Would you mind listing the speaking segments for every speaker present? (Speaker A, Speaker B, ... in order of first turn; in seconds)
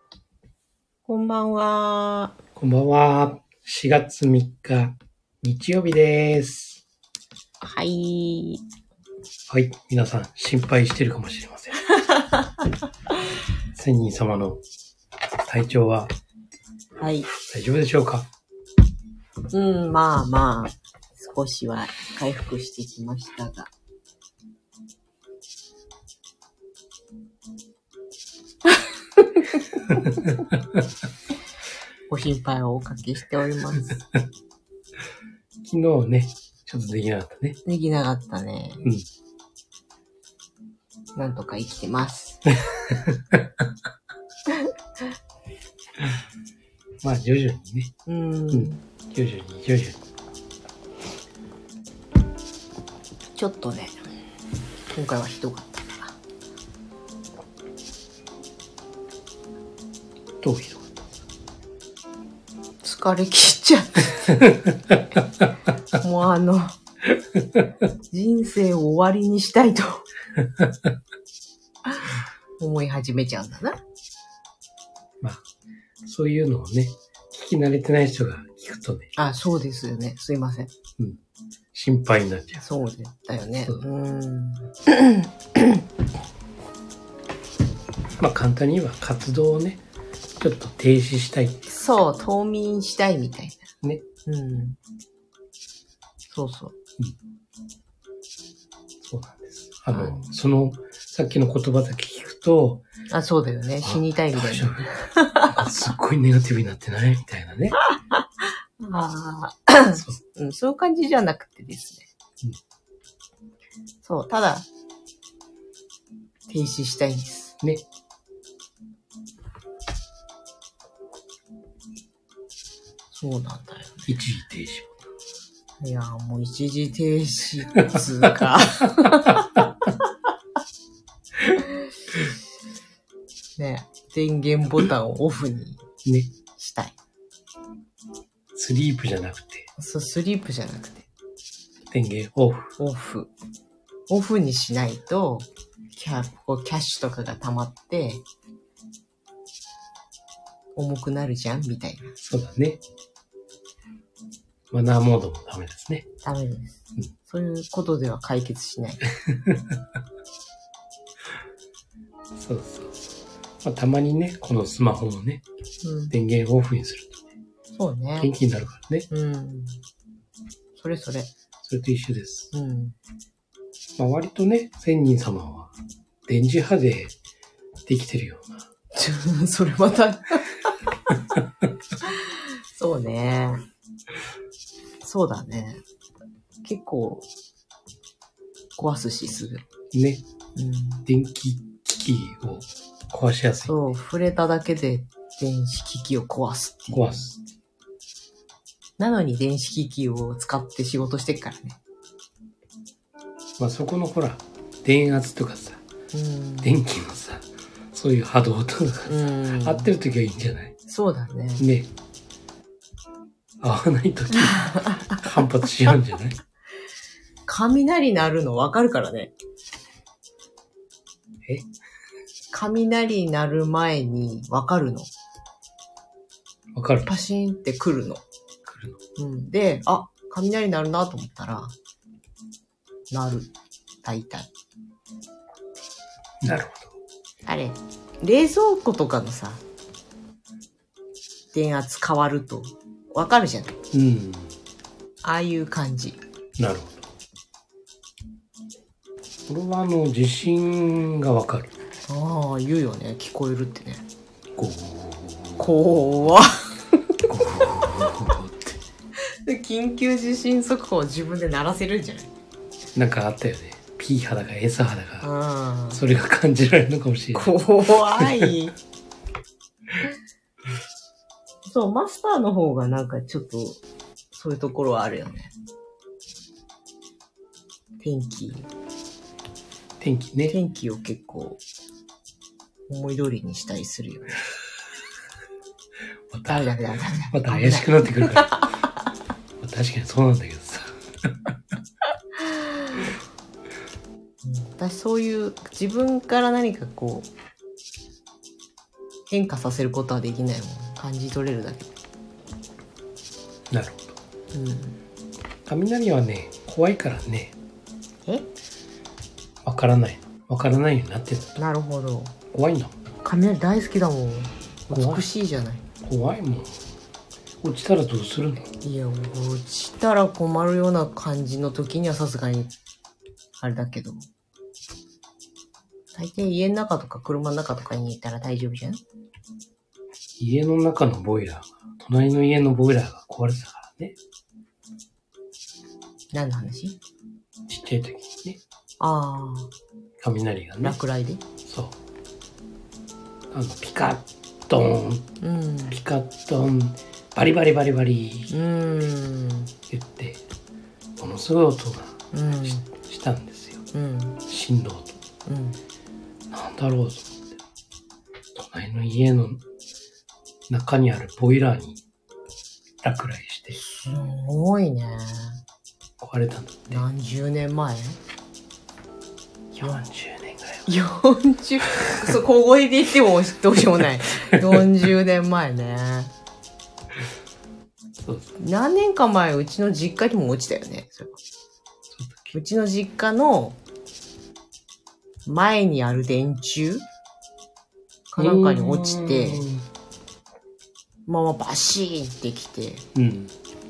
Speaker A: 1.1-2.4, 7.6-8.6, 11.9-12.7, 17.0-17.3, 19.5-23.7, 29.2-29.7, 32.1-34.0, 37.6-38.9, 41.2-42.5, 48.1-48.8, 53.4-54.0, 54.9-56.2, 62.8-64.4, 65.9-66.8, 68.1-70.1, 71.9-73.8, 79.2-80.7, 82.6-85.8, 91.7-93.7, 94.3-94.8, 96.3-96.8, 99.9-100.2, 103.1-105.7, 107.9-112.1, 114.0-114.7, 116.5-117.6, 123.1-124.1, 125.8-129.9, 133.6-135.8, 136.6-136.9, 139.8-141.1, 142.8-143.3, 144.1-148.2, 150.8-152.2, 156.2-159.1, 165.8-166.1, 167.7-168.3, 169.1-169.8, 170.8-171.3, 172.5-172.9, 178.9-180.9, 182.0-183.6, 185.0-185.8, 186.6-187.2, 188.8-189.7, 190.6-191.1, 193.7-197.2, 199.0-201.8, 206.1-206.8, 209.1-209.9, 210.9-211.7, 214.3-215.2, 217.5-219.3, 222.5-225.1, 227.1-228.2, 229.2-231.7, 233.1-233.5, 234.0-234.5, 237.5-239.6, 241.5-243.8, 245.2-246.2, 252.1-254.1, 255.6-257.2, 259.2-262.3, 265.2-266.0, 267.3-268.8, 271.7-273.8, 274.3-275.5, 278.0-278.7, 280.5-281.6, 282.9-284.4, 286.5-288.9, 292.4-293.0, 294.4-297.3, 299.3-301.9, 304.5-305.0, 311.6-312.4, 313.2-315.9, 318.8-322.7, 323.6-324.3, 326.1-329.0, 336.3-337.0, 339.0-339.7, 340.8-341.4, 345.4-346.0, 348.5-349.7, 352.3-352.9, 353.9-354.4, 355.5-355.8, 363.8-365.6, 366.9-368.2, 370.9-376.3, 378.6-381.4, 382.5-383.8, 385.5-387.1, 388.3-389.7, 391.3-393.1
Speaker B: 2.6-6.8, 9.5-11.9, 13.7-14.6, 15.4-16.1, 17.3-18.3, 35.6-37.6, 42.7-43.6, 47.0-47.9, 48.5-50.0, 60.4-61.1, 64.4-65.5, 67.4-67.7, 70.6-70.9, 76.0-79.1, 81.7-82.7, 88.2-89.8, 90.4-91.7, 99.0-102.8, 103.8-105.0, 105.5-107.8, 109.9-110.2, 124.1-125.0, 127.8-128.1, 128.9-129.6, 136.1-136.3, 138.6-139.7, 141.9-142.8, 152.2-152.8, 154.7-156.1, 159.2-159.8, 162.3-165.4, 166.1-167.3, 168.2-169.1, 171.6-172.5, 174.0-175.7, 176.3-177.2, 177.9-178.7, 189.9-190.2, 191.1-193.8, 196.9-197.4, 203.6-205.8, 206.6-210.7, 211.6-211.9, 213.6-216.4, 226.8-227.1, 228.7-229.0, 236.4-236.9, 243.9-244.5, 246.6-247.1, 249.5-251.7, 254.6-255.7, 257.2-258.8, 262.9-265.3, 265.9-268.5, 280.0-280.6, 286.3-286.7, 287.3-288.7, 289.6-291.6, 303.7-304.2, 305.7-307.6, 309.6-311.6, 312.5-313.0, 314.9-315.3, 316.0-316.8, 317.6-318.7, 330.4-334.2, 337.7-338.6, 340.2-341.0, 341.6-342.0, 343.5-345.3, 345.9-348.5, 349.9-350.4, 351.2-353.9, 354.5-355.2, 356.5-357.6, 358.5-359.6, 360.7-362.0, 363.0-363.8, 366.2-367.1, 369.7-370.9, 378.2-378.5, 382.1-382.5, 388.4-389.9, 393.1-393.5